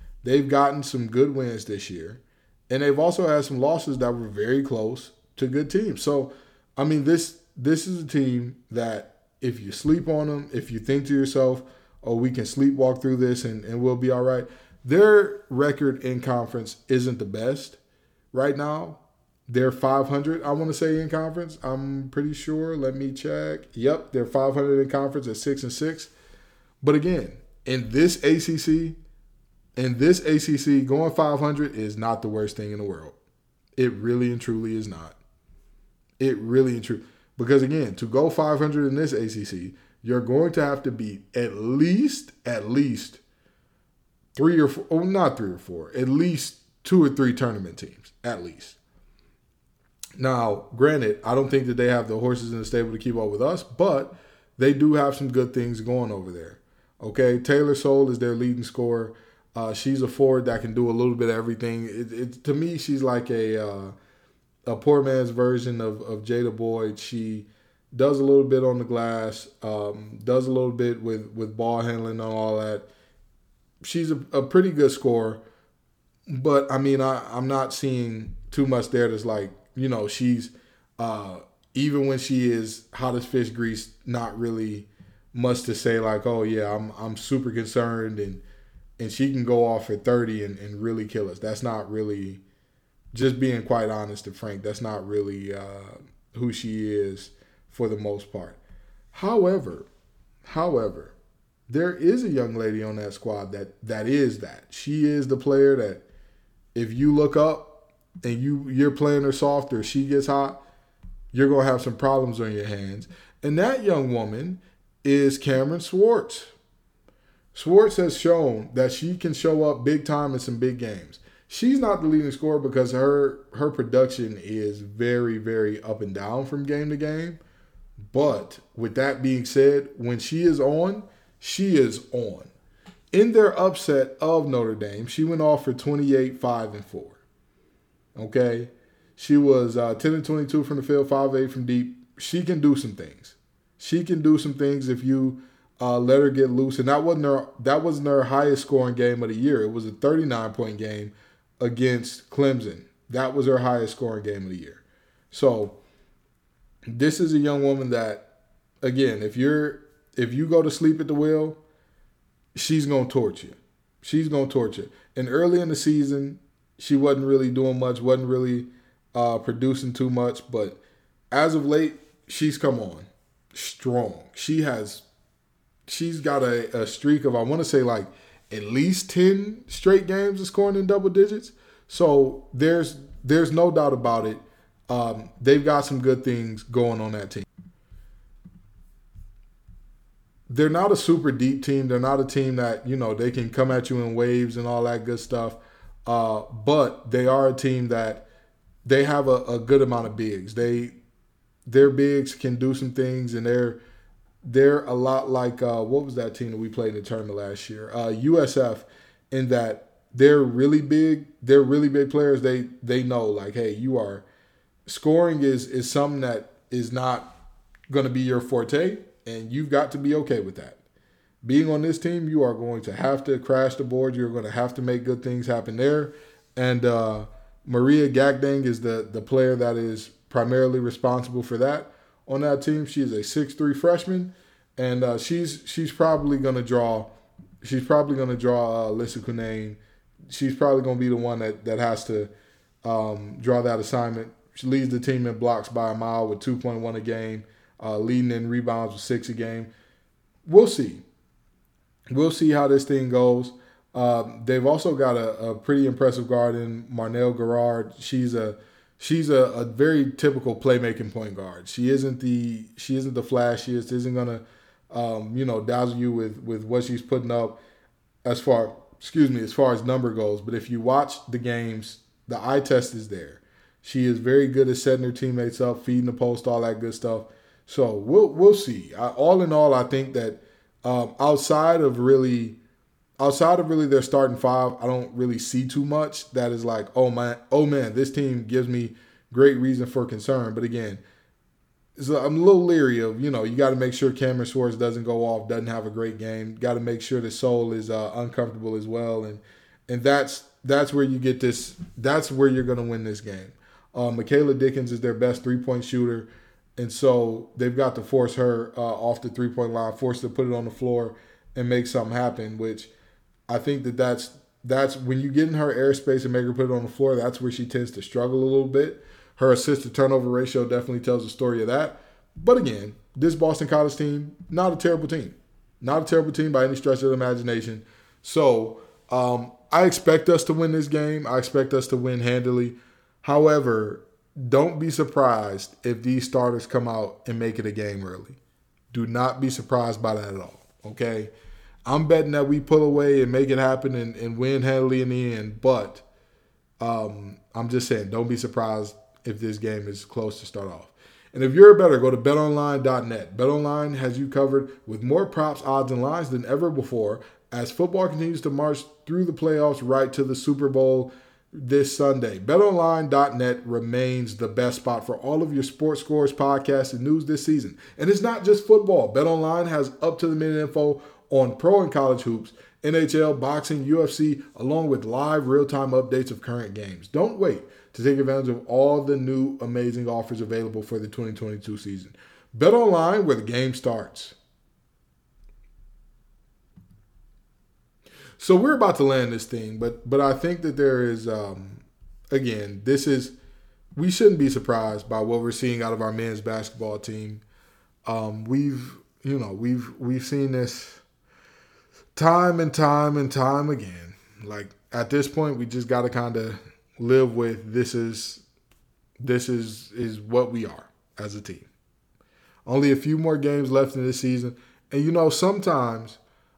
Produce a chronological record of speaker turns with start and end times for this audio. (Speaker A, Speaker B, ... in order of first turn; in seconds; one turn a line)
Speaker A: 0.2-17.8
Speaker A: 18.3-26.1
Speaker A: 26.8-29.0
Speaker A: 29.8-33.2
Speaker A: 33.8-35.2
Speaker A: 36.2-43.2
Speaker A: 44.3-48.8
Speaker A: 50.2-63.9
Speaker A: 64.7-72.9
Speaker A: 73.8-75.4
Speaker A: 76.3-88.4
Speaker A: 89.0-92.4
Speaker A: 93.1-98.6
Speaker A: 99.1-99.9
Speaker A: 100.4-101.2
Speaker A: 101.7-106.0
Speaker A: 106.7-110.6
Speaker A: 111.3-116.5
Speaker A: 117.5-127.4
Speaker A: 128.1-132.5
Speaker A: 133.1-137.2
Speaker A: 138.1-155.8
Speaker A: 156.9-158.3
Speaker A: 158.8-161.6
Speaker A: 162.5-170.8
Speaker A: 171.3-175.0
Speaker A: 175.9-187.5
Speaker A: 190.5-198.3
Speaker A: 198.8-201.0
Speaker A: 201.7-203.8
Speaker A: 204.4-214.2
Speaker A: 214.8-217.3
Speaker A: 217.9-220.8
Speaker A: 221.4-242.3
Speaker A: 242.8-249.7
Speaker A: 250.4-251.0
Speaker A: 252.1-267.6
Speaker A: 268.2-282.6
Speaker A: 283.2-291.0
Speaker A: 292.0-312.9
Speaker A: 313.5-338.4
Speaker A: 338.9-341.3
Speaker A: 341.9-346.0
Speaker A: 346.8-384.4
Speaker A: 388.4-393.3
Speaker A: 393.9-397.4
Speaker A: 398.0-401.0
Speaker A: 402.1-408.4
Speaker A: 409.2-411.7
Speaker A: 412.7-416.2